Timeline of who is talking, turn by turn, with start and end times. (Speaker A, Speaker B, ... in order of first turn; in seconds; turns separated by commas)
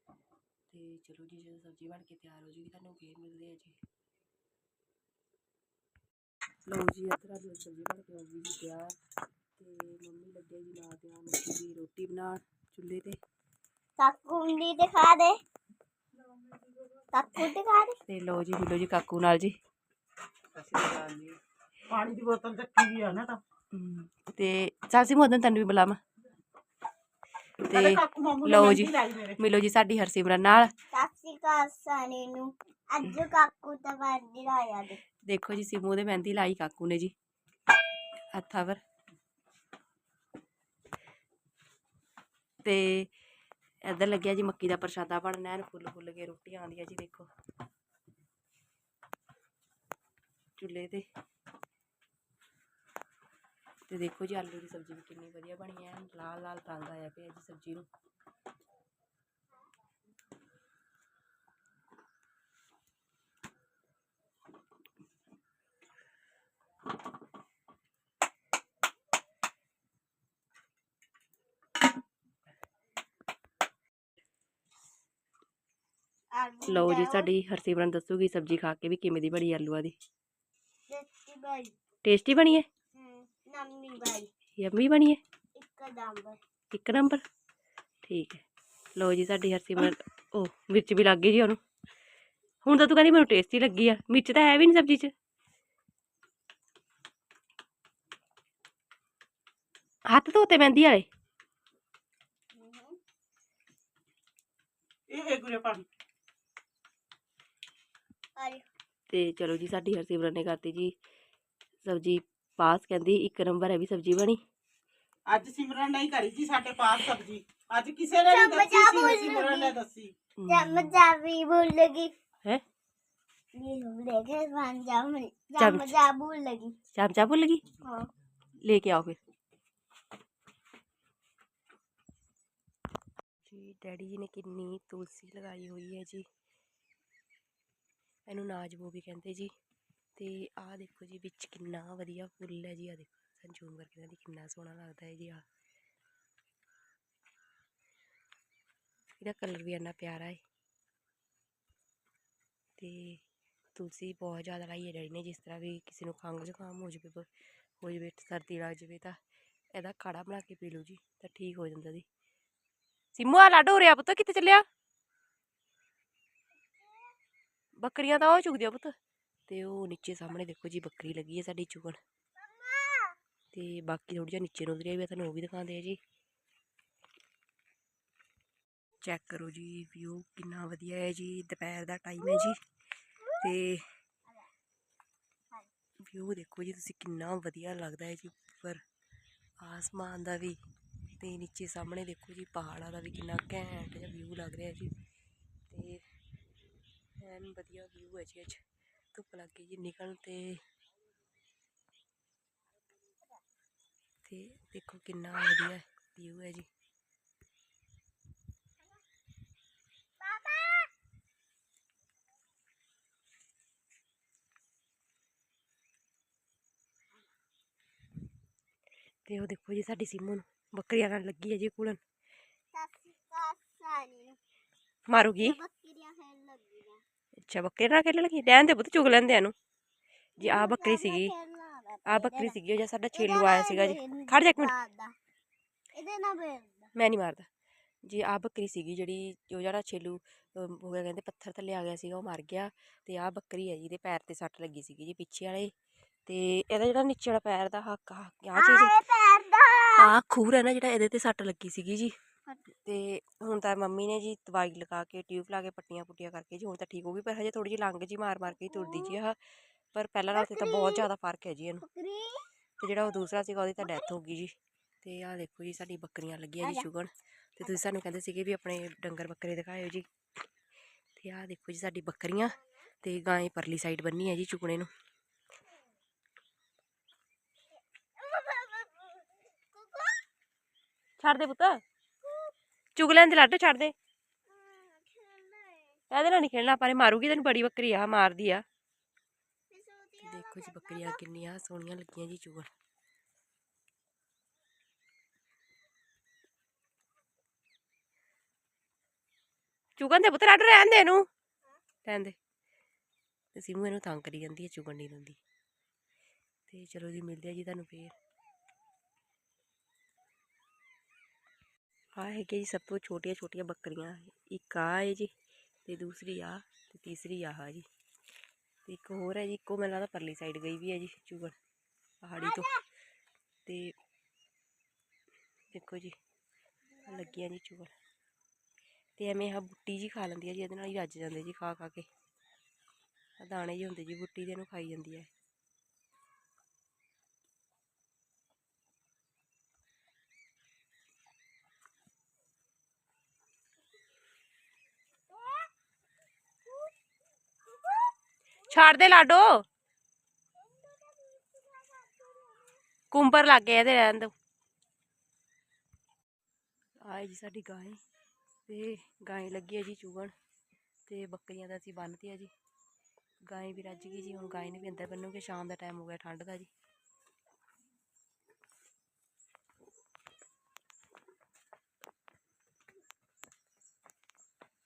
Speaker A: 0.7-3.8, Speaker A: 6.7-8.9, Speaker A: 9.6-13.2, Speaker B: 14.0-15.4, Speaker B: 17.1-18.0, Speaker A: 18.1-19.6, Speaker C: 20.5-21.3, Speaker C: 21.9-23.4, Speaker A: 23.7-26.0, Speaker A: 27.6-30.7, Speaker C: 27.7-29.4, Speaker B: 30.9-35.0, Speaker A: 35.2-37.1, Speaker A: 38.3-38.8, Speaker A: 42.6-43.1, Speaker A: 43.8-47.3, Speaker A: 50.6-51.1, Speaker A: 53.9-57.9, Speaker B: 76.3-77.3, Speaker A: 76.7-80.0, Speaker B: 80.9-81.7, Speaker A: 82.0-82.7, Speaker B: 82.9-84.3, Speaker A: 84.5-85.2, Speaker B: 85.5-86.4, Speaker A: 86.7-87.2, Speaker A: 88.0-91.6, Speaker A: 92.6-95.1, Speaker A: 100.0-101.1, Speaker B: 102.5-103.0, Speaker C: 105.1-105.8, Speaker B: 108.3-108.6, Speaker A: 109.1-111.0, Speaker A: 111.8-114.4, Speaker C: 115.3-120.1, Speaker B: 118.3-119.7, Speaker A: 120.4-120.9, Speaker B: 120.5-122.1, Speaker B: 123.5-126.8, Speaker A: 125.6-126.0, Speaker A: 126.9-127.7, Speaker B: 127.8-128.1, Speaker A: 128.6-129.2, Speaker A: 133.4-136.2, Speaker A: 138.2-139.5, Speaker A: 140.2-145.4, Speaker A: 149.2-150.4, Speaker A: 152.8-153.2, Speaker A: 153.7-157.3, Speaker A: 157.8-159.2, Speaker A: 159.7-162.1, Speaker A: 163.1-164.7, Speaker A: 167.8-168.9, Speaker A: 169.5-172.0, Speaker B: 172.4-173.2, Speaker A: 173.5-176.0, Speaker A: 179.0-182.6, Speaker A: 183.3-183.8, Speaker A: 186.0-188.8, Speaker A: 189.6-190.6, Speaker A: 191.2-194.9, Speaker A: 195.7-196.0, Speaker A: 197.2-198.6, Speaker A: 199.1-200.6, Speaker A: 204.2-206.7, Speaker B: 210.2-210.9, Speaker A: 219.2-222.0, Speaker B: 222.7-224.4, Speaker A: 225.1-225.6, Speaker B: 225.4-227.0, Speaker A: 227.4-229.5, Speaker B: 230.4-232.5, Speaker A: 230.4-231.3, Speaker A: 232.1-234.7, Speaker B: 233.1-235.1, Speaker B: 235.9-236.9, Speaker A: 236.9-237.5, Speaker A: 238.0-245.7, Speaker A: 246.3-248.9, Speaker B: 248.5-250.1, Speaker A: 250.0-252.2, Speaker A: 252.7-259.4, Speaker A: 259.9-261.8, Speaker B: 260.3-261.1, Speaker B: 261.8-262.4, Speaker A: 262.8-270.1, Speaker B: 263.8-264.1, Speaker A: 271.1-274.9, Speaker B: 278.2-280.2, Speaker A: 281.2-281.8, Speaker B: 282.2-282.5, Speaker A: 282.9-283.9, Speaker B: 284.5-286.0, Speaker A: 286.1-288.6, Speaker B: 289.7-291.2, Speaker A: 290.2-292.7, Speaker A: 300.0-301.3, Speaker A: 302.0-302.4, Speaker A: 303.5-305.4, Speaker A: 306.7-308.1, Speaker A: 312.1-315.3, Speaker A: 315.8-317.9, Speaker A: 318.9-321.6, Speaker A: 322.2-322.8, Speaker A: 323.6-323.9, Speaker A: 325.7-326.2, Speaker A: 327.0-327.9, Speaker A: 329.2-332.1, Speaker A: 333.4-335.3, Speaker B: 345.3-345.7, Speaker B: 347.7-348.0, Speaker A: 348.7-349.6, Speaker B: 350.6-352.8, Speaker A: 353.1-354.3, Speaker A: 357.0-358.0, Speaker A: 358.7-360.3, Speaker A: 361.1-362.5, Speaker A: 363.4-366.7